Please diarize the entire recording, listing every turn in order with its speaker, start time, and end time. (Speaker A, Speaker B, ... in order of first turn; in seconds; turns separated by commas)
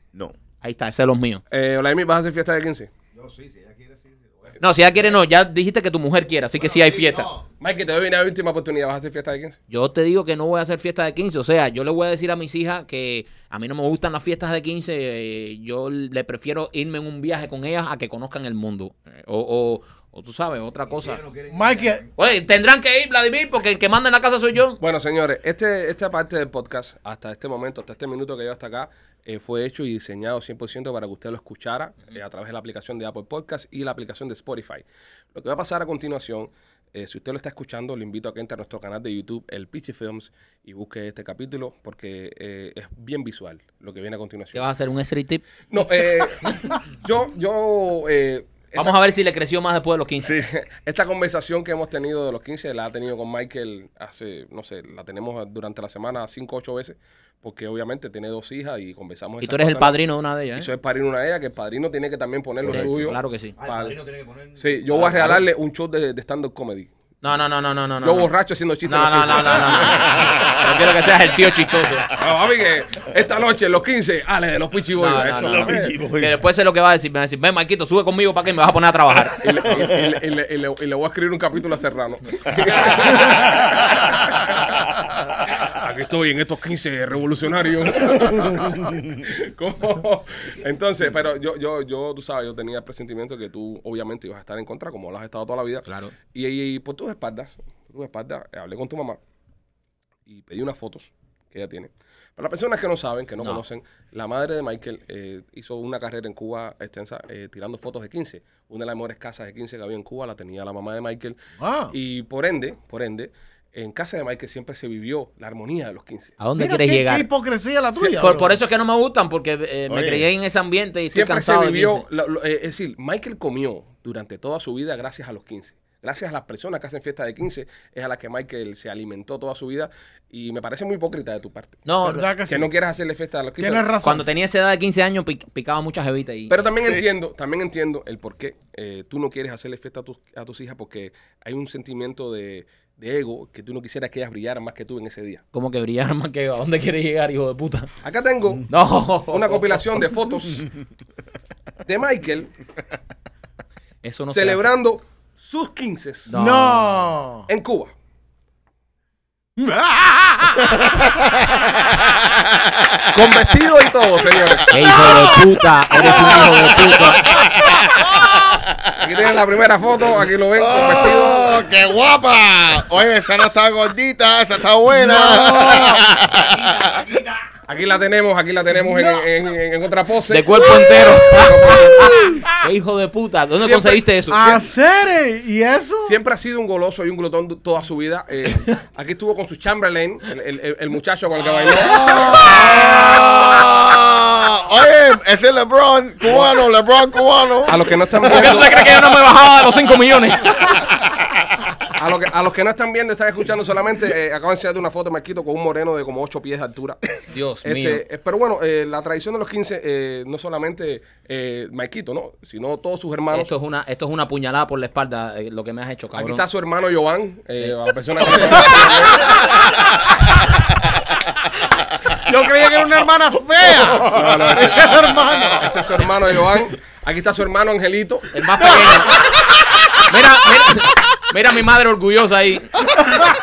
Speaker A: 0.6-1.4, Speaker B: 1.5-2.9, Speaker C: 3.1-5.2, Speaker A: 4.6-7.3, Speaker C: 6.5-7.5, Speaker B: 7.6-9.6, Speaker A: 9.7-21.2, Speaker C: 20.9-22.1, Speaker D: 21.5-22.0, Speaker A: 22.2-24.8, Speaker B: 24.8-44.7, Speaker A: 44.5-45.4, Speaker B: 45.7-49.0, Speaker A: 48.8-50.4, Speaker E: 50.2-50.5, Speaker B: 50.4-60.0, Speaker A: 59.4-60.7, Speaker B: 60.6-64.0, Speaker E: 62.6-62.9, Speaker A: 62.7-63.5, Speaker C: 63.6-65.0, Speaker B: 64.6-66.9, Speaker A: 64.9-65.4, Speaker A: 67.2-68.3, Speaker B: 68.0-70.0, Speaker A: 68.8-72.1, Speaker E: 69.9-70.6, Speaker B: 72.2-75.9, Speaker A: 75.0-79.5, Speaker E: 75.4-76.4, Speaker B: 79.4-99.2, Speaker E: 79.7-80.1, Speaker A: 95.9-96.1, Speaker B: 100.3-111.4, Speaker D: 111.6-111.9, Speaker B: 111.9-116.4, Speaker A: 116.4-117.3, Speaker D: 116.6-118.5, Speaker B: 118.0-118.4, Speaker A: 118.2-122.0, Speaker E: 119.9-120.2, Speaker B: 121.1-131.8, Speaker A: 131.8-132.3, Speaker D: 132.0-132.7, Speaker B: 132.5-133.9, Speaker D: 133.6-134.2, Speaker A: 134.0-136.7, Speaker B: 136.5-145.4, Speaker A: 145.5-147.9, Speaker B: 148.0-148.7, Speaker A: 148.7-149.8, Speaker B: 149.3-150.7, Speaker B: 151.8-152.5, Speaker A: 154.0-154.7, Speaker B: 154.3-156.3, Speaker A: 156.3-156.9, Speaker D: 156.3-157.5, Speaker B: 157.5-157.9, Speaker D: 159.6-160.7, Speaker E: 160.8-163.5, Speaker B: 163.1-164.8, Speaker E: 164.5-169.2, Speaker A: 164.7-167.3, Speaker B: 169.0-171.6, Speaker E: 170.6-177.2, Speaker D: 174.9-176.0, Speaker C: 176.3-177.6, Speaker B: 177.7-182.4, Speaker D: 178.8-179.2, Speaker A: 180.3-184.5, Speaker B: 183.6-184.7, Speaker D: 184.3-186.2, Speaker B: 186.0-192.7, Speaker A: 191.4-192.1, Speaker E: 191.8-198.7, Speaker D: 191.9-193.1, Speaker B: 196.3-196.6, Speaker B: 197.7-198.9, Speaker A: 198.3-200.9, Speaker B: 201.8-207.0, Speaker A: 207.3-208.0, Speaker B: 207.6-213.5, Speaker A: 213.3-216.4, Speaker B: 216.2-219.3, Speaker A: 217.6-218.8, Speaker D: 222.2-225.7, Speaker E: 223.6-225.7, Speaker B: 224.0-228.3, Speaker A: 228.3-229.3, Speaker A: 230.0-232.8